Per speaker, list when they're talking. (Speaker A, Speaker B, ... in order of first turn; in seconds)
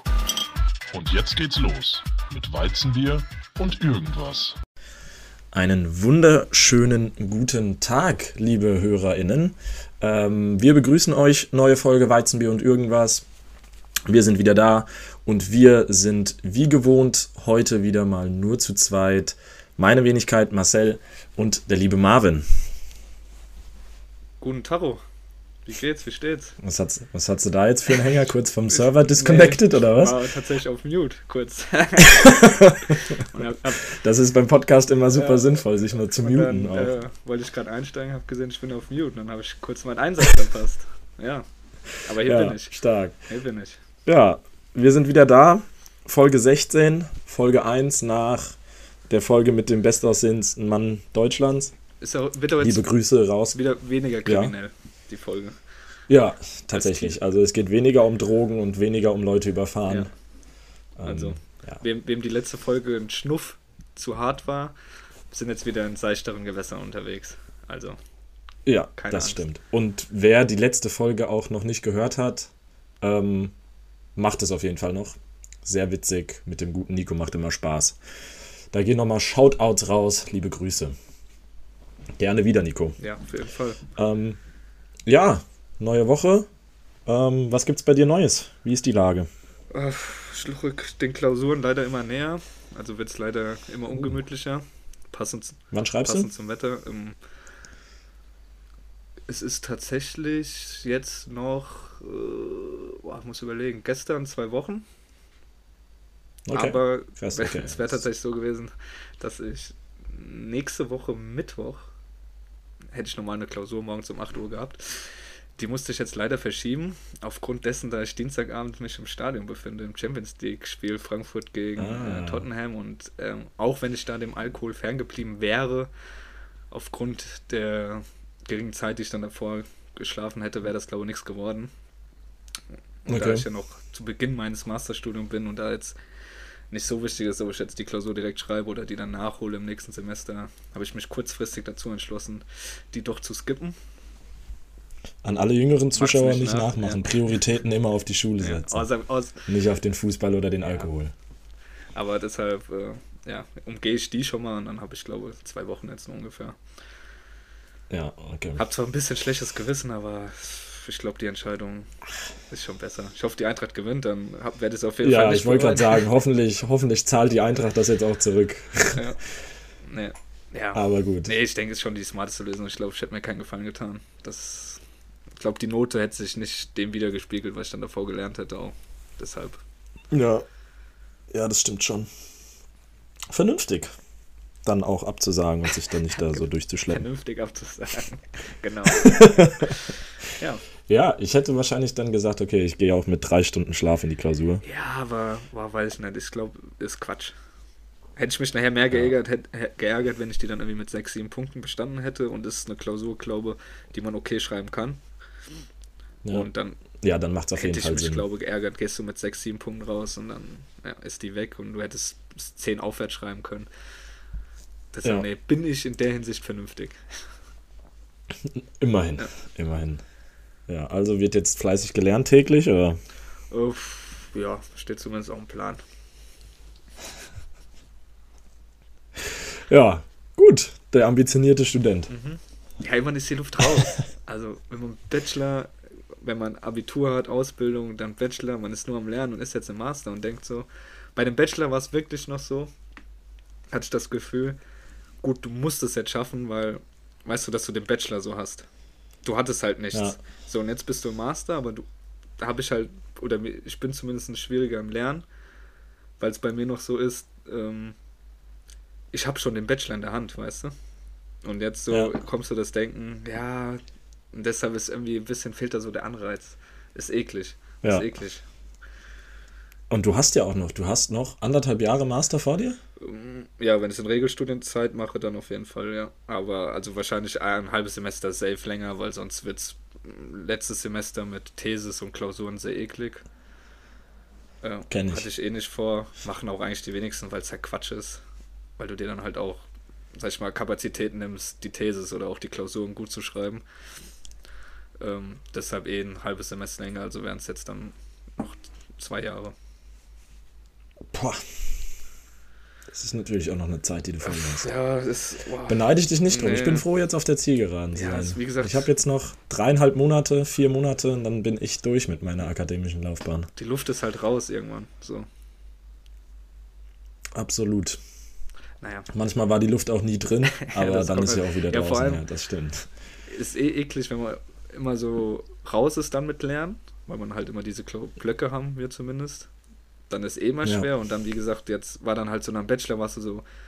Speaker A: 0.9-4.5
Speaker B: 5.5-13.2, 14.1-22.5, 26.6-30.2, 32.1-37.0, 42.2-43.2, 44.0-48.5, 49.1-51.7, 52.6-53.6, 54.3-54.5, 56.1-60.1, 61.0-61.8, 68.7-72.5, 73.0-73.5, 74.2-78.0, 78.7-81.0, 82.2-83.0, 84.0-84.4, 85.1-86.5, 87.1-89.3, 95.7-96.3, 106.5-108.0, 121.8-122.5, 133.1-133.4, 145.2-148.8, 149.5-151.1, 157.9-158.6, 165.0-169.0, 170.7-171.3, 180.1-180.4, 181.3-182.1, 183.3-183.9, 184.6-187.0, 188.9-189.7, 190.9-194.6, 206.2-206.5, 207.0-208.2, 218.4-220.0, 220.7-223.0, 229.2-232.1, 261.9-262.2, 269.9-272.8, 284.9-285.3, 301.1-301.4, 302.9-304.6, 305.7-313.5, 317.3-318.0, 319.1-322.9
Speaker C: 24.4-25.0, 25.7-26.6, 28.7-33.9, 35.1-43.8, 52.0-52.9, 53.5-55.6, 56.7-57.1, 61.0-64.8, 65.3-68.0, 69.0-69.4, 83.0-83.8, 89.7-97.2, 99.3-104.8, 106.5-111.9, 112.9-125.9, 126.7-131.7, 133.1-135.9, 136.7-143.8, 145.9-147.1, 148.4-149.4, 151.9-156.6, 158.6-161.9, 162.5-166.1, 169.8-174.8, 175.3-179.6, 186.9-190.6, 194.6-197.3, 198.2-205.0, 206.3-206.8, 207.6-213.7, 214.9-217.2, 223.5-225.8, 232.1-242.7, 243.7-244.6, 245.2-248.7, 249.2-251.8, 252.4-255.2, 256.2-257.9, 259.1-260.7, 261.4-263.8, 264.3-268.4, 273.0-283.2, 284.6-288.2, 288.8-289.6, 290.2-293.6, 295.0-299.5, 304.2-306.9, 307.9-308.9, 313.6-315.3, 318.8-319.1, 320.6-322.2, 323.3-329.5, 330.1-333.4